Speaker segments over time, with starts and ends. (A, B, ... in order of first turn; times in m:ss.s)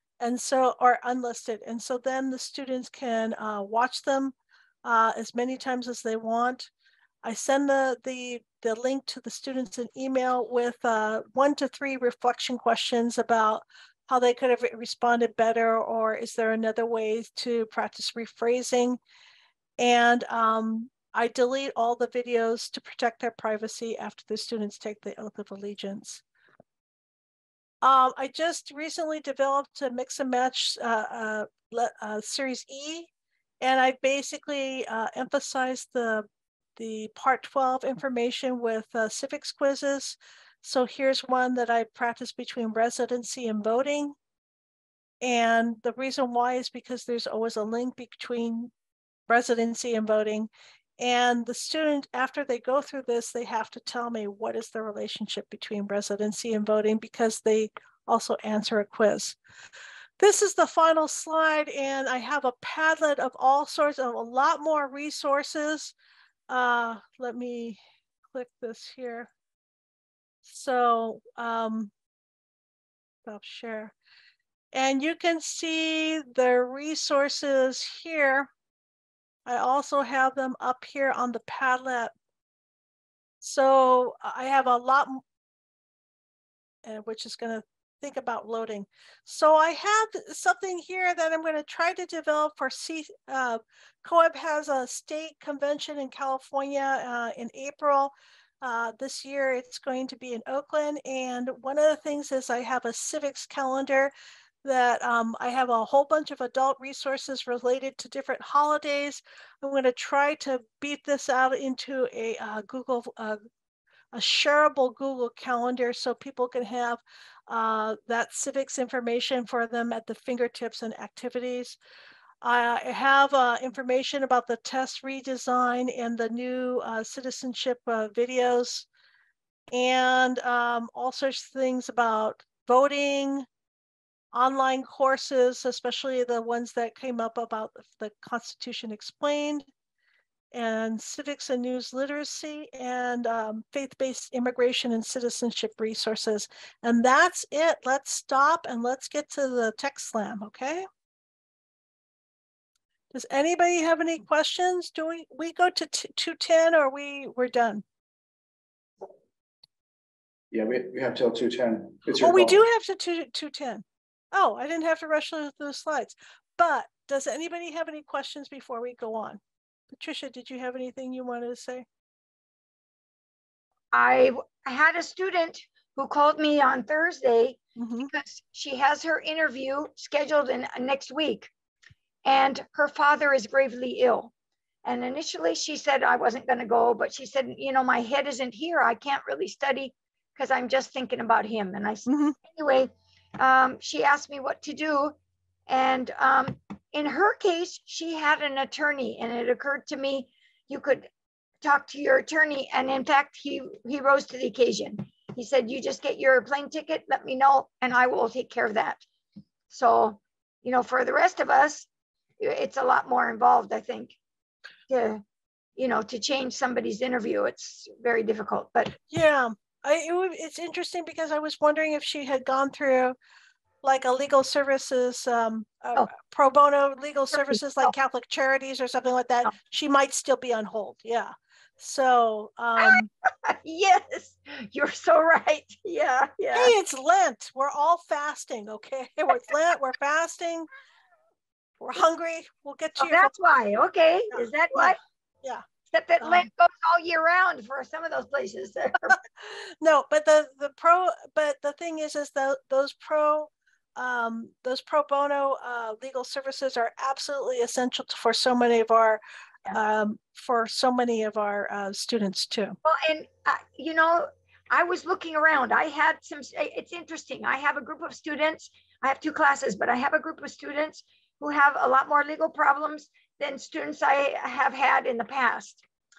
0:00.2-0:04.3 A
0:04.8-0:06.7 A
0:07.2-0:19.0 A
0:19.8-0:26.2 A
0:27.8-0:33.1 A
0:33.6-0:44.2 A
0:45.2-0:48.7 A
0:49.3-0:59.4 A
1:00.2-1:05.9 A
1:06.5-1:07.8 A
1:08.3-1:09.3 A
1:10.4-1:11.9 A
1:13.2-1:13.9 A
1:14.7-1:18.5 A
1:19.4-1:22.1 A
1:23.4-1:25.2 A
1:26.8-1:44.1 A
1:44.6-1:53.4 A
1:54.1-2:01.8 A
2:02.4-2:08.9 A
2:09.7-2:13.5 A
2:14.3-2:19.6 A
2:20.5-2:30.9 A
2:33.1-2:37.8 A
2:40.5-2:42.6 B
2:42.2-2:49.4 A
2:49.9-2:51.8 A
2:53.9-3:01.5 C
2:57.8-2:58.1 A
3:02.2-3:04.3 C
3:04.8-3:15.2 C
3:12.1-3:12.4 A
3:15.7-3:21.1 C
3:21.6-3:29.0 C
3:29.7-3:31.9 C
3:32.4-3:34.2 C
3:34.9-3:35.2 C
3:35.8-3:39.0 C
3:39.1-3:43.2 A
3:43.8-3:53.1 A
3:47.4-3:47.9 C
3:52.8-3:56.7 C
3:56.5-4:00.7 A
4:01.9-4:03.3 A
4:03.0-4:05.0 C
4:04.3-4:05.6 A
4:05.9-4:09.2 C
4:06.2-4:06.5 A
4:09.1-4:22.8 A
4:22.8-4:35.8 C